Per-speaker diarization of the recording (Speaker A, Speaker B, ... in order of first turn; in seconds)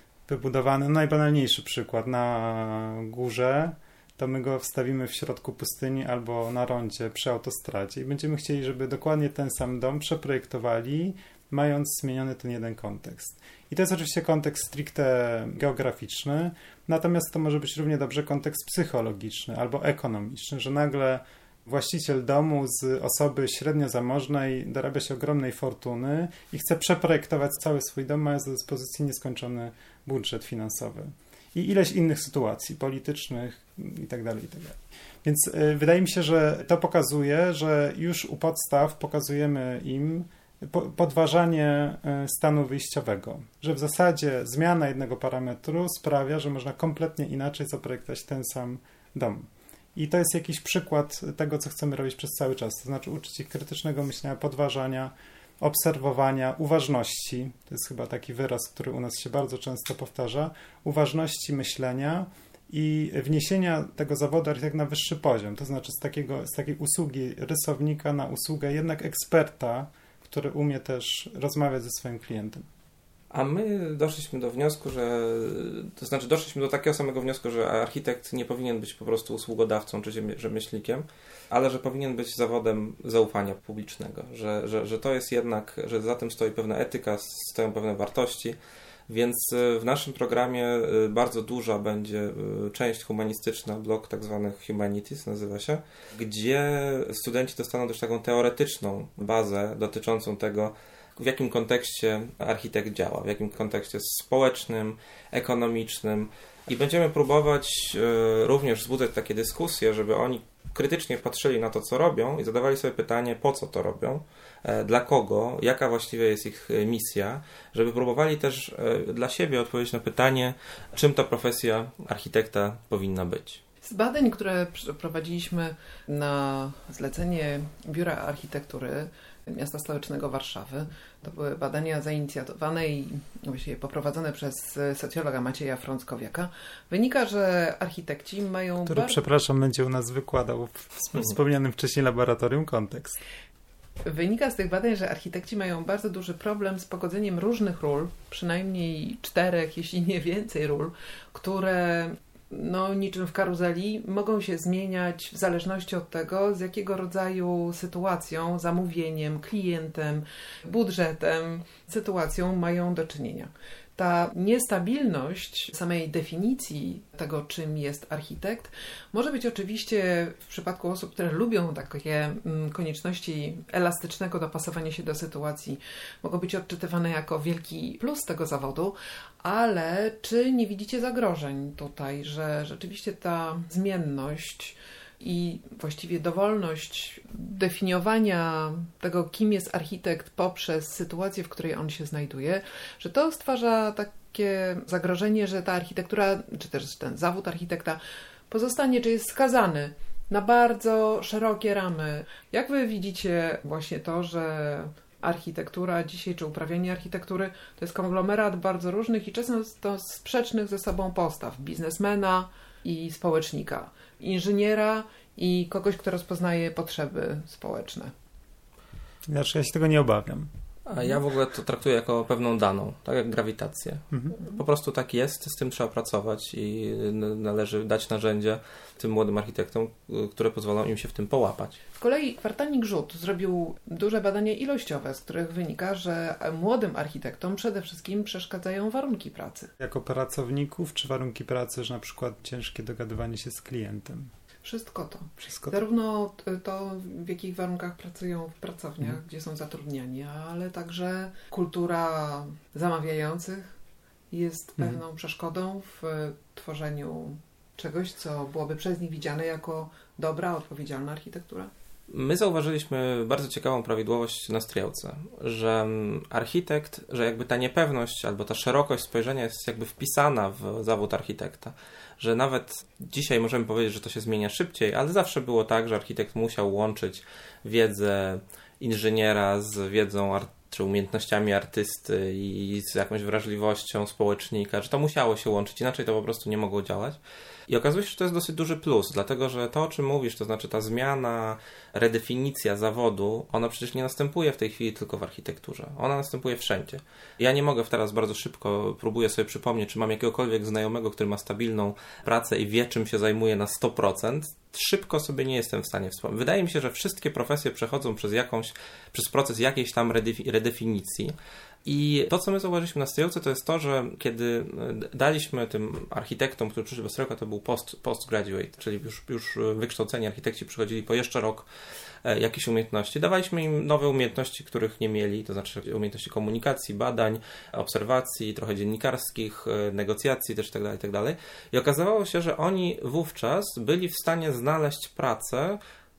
Speaker A: 0.3-72.7, 138.8-143.2, 219.3-220.5, 224.1-224.4, 239.8-244.3, 245.4-245.8
Speaker B: 73.3-88.6, 89.1-123.6, 220.9-231.8, 262.1-321.7, 322.2-335.8
Speaker C: 123.8-139.2, 144.0-218.1, 232.0-239.7, 244.6-253.7, 254.3-261.7